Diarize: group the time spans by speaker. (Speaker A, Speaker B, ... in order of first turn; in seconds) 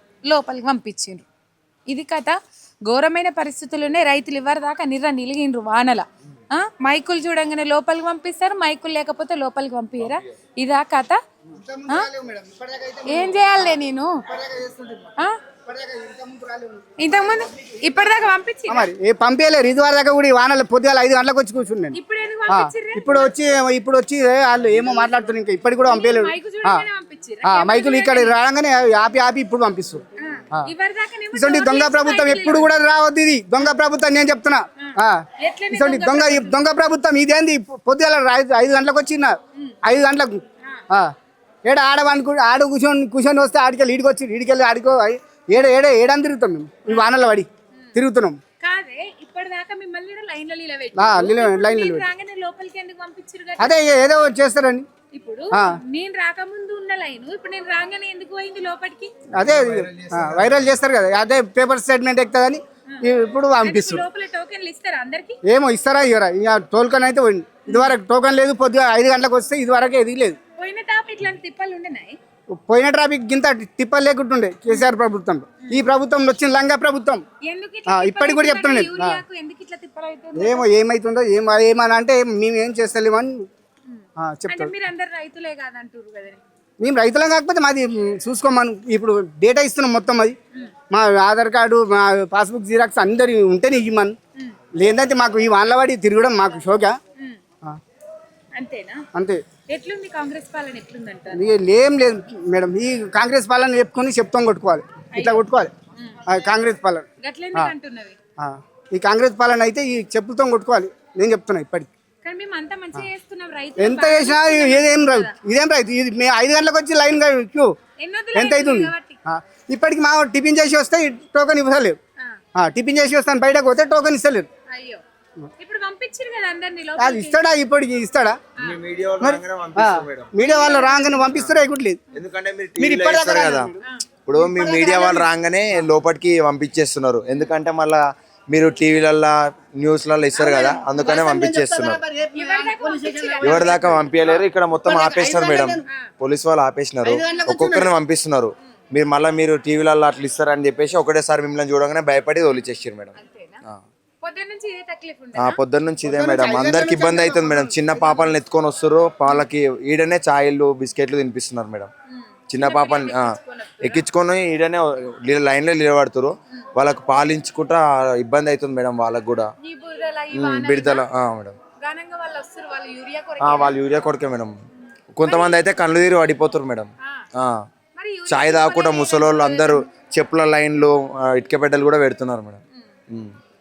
Speaker A: 0.3-1.2, 1.9-11.2, 13.1-14.2, 17.0-18.9, 21.9-23.3, 25.8-28.3, 30.2-32.7, 34.8-36.6, 48.6-53.8, 55.1-59.1, 63.6-65.4, 67.7-67.9, 70.6-72.2, 77.4-80.7, 83.9-86.4, 98.5-99.0, 99.7-101.5, 105.1-106.2, 107.2-108.2, 112.2-115.3, 118.0-119.2, 124.7-125.0, 125.6-127.4, 130.4-131.3, 142.3-144.0, 153.2-153.6, 154.2-155.6, 162.1-164.0, 169.6-171.1, 171.8-173.8, 175.2-175.6, 177.0-177.3, 177.9-179.8
Speaker B: 11.5-15.1, 15.7-21.9, 22.5-26.9, 27.4-30.0, 31.3-40.4, 41.6-48.4, 51.0-52.1, 53.6-54.9, 59.3-64.0, 65.4-70.4, 72.6-77.2, 77.9-79.2, 80.3-83.4, 84.2-84.7, 86.8-90.3, 90.9-94.2, 94.8-97.0, 101.3-105.7, 106.3-107.7, 108.4-111.9, 113.8-117.7, 118.3-122.0, 122.5-124.5, 127.0-128.4, 129.2-132.0, 132.8-133.8, 134.3-135.3, 140.3-145.8, 147.0-147.9, 156.0-158.2
Speaker C: 59.5-60.6, 128.6-130.3, 131.3-133.7, 134.2-142.0, 143.4-153.8, 155.3-161.9, 162.5-169.5, 170.3-171.6, 173.4-174.6, 175.1-177.6, 178.3-183.3